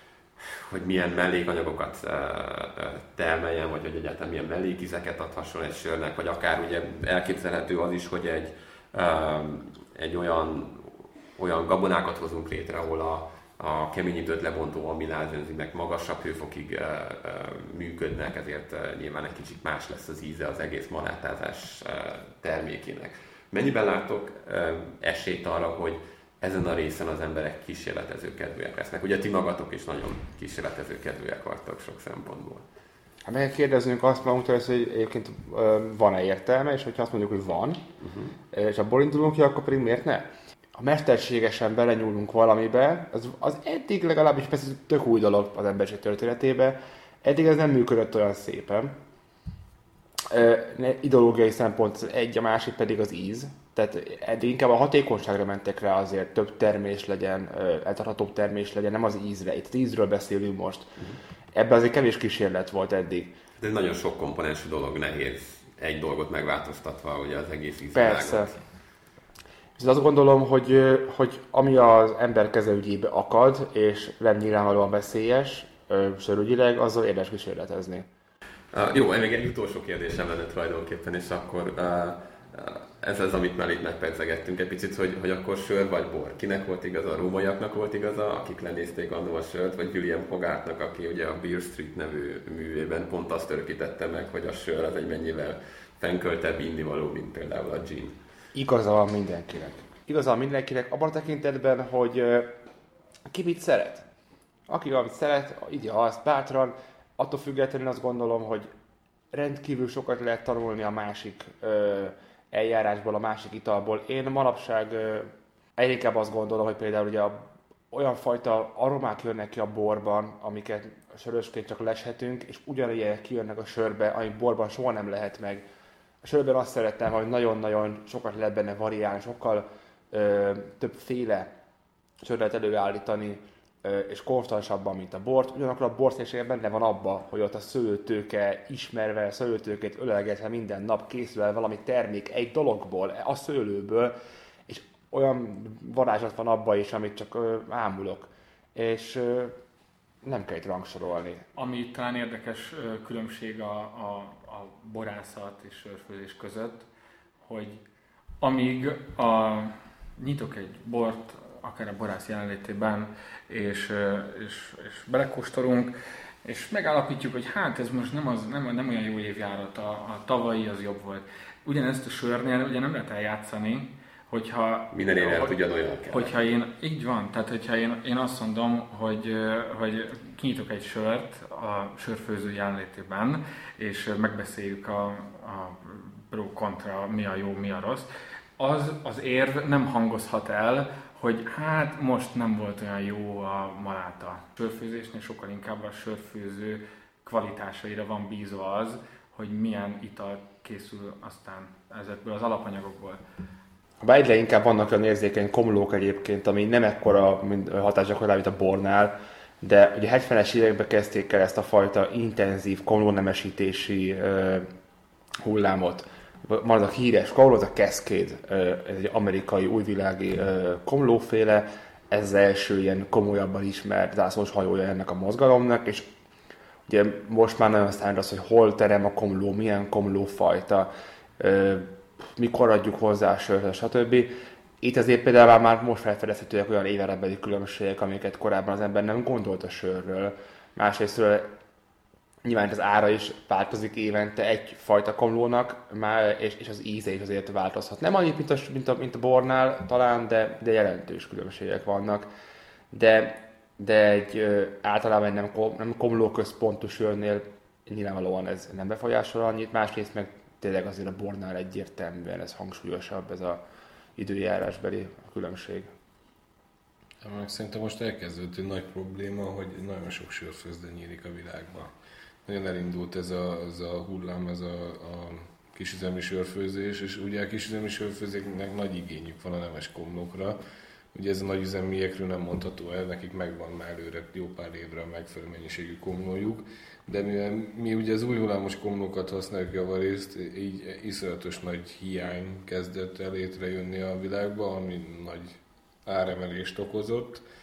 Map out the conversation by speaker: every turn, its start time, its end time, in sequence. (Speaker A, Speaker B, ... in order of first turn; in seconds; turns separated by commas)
Speaker A: 0.4-32.7, Speaker B: 33.3-37.8, Speaker A: 38.0-38.4, Speaker B: 38.5-48.9, Speaker B: 50.3-60.9, Speaker B: 61.5-63.4, Speaker A: 63.6-68.5, Speaker B: 68.0-68.5, Speaker B: 69.8-78.1, Speaker A: 78.7-98.2, Speaker B: 98.5-102.5, Speaker B: 103.3-104.1, Speaker B: 104.7-108.7, Speaker B: 109.3-117.4, Speaker B: 117.9-125.6, Speaker B: 126.2-131.5, Speaker B: 132.2-144.2, Speaker B: 144.7-149.5, Speaker B: 150.2-151.5, Speaker C: 151.6-156.9, Speaker C: 157.4-157.8, Speaker C: 158.4-175.6, Speaker A: 174.9-176.3, Speaker C: 176.1-203.2, Speaker B: 204.0-214.7, Speaker B: 215.4-226.1, Speaker B: 226.9-241.5, Speaker B: 242.4-252.3, Speaker B: 252.9-263.6, Speaker B: 264.2-265.9, Speaker D: 267.2-271.9, Speaker D: 272.5-280.6, Speaker D: 281.1-297.4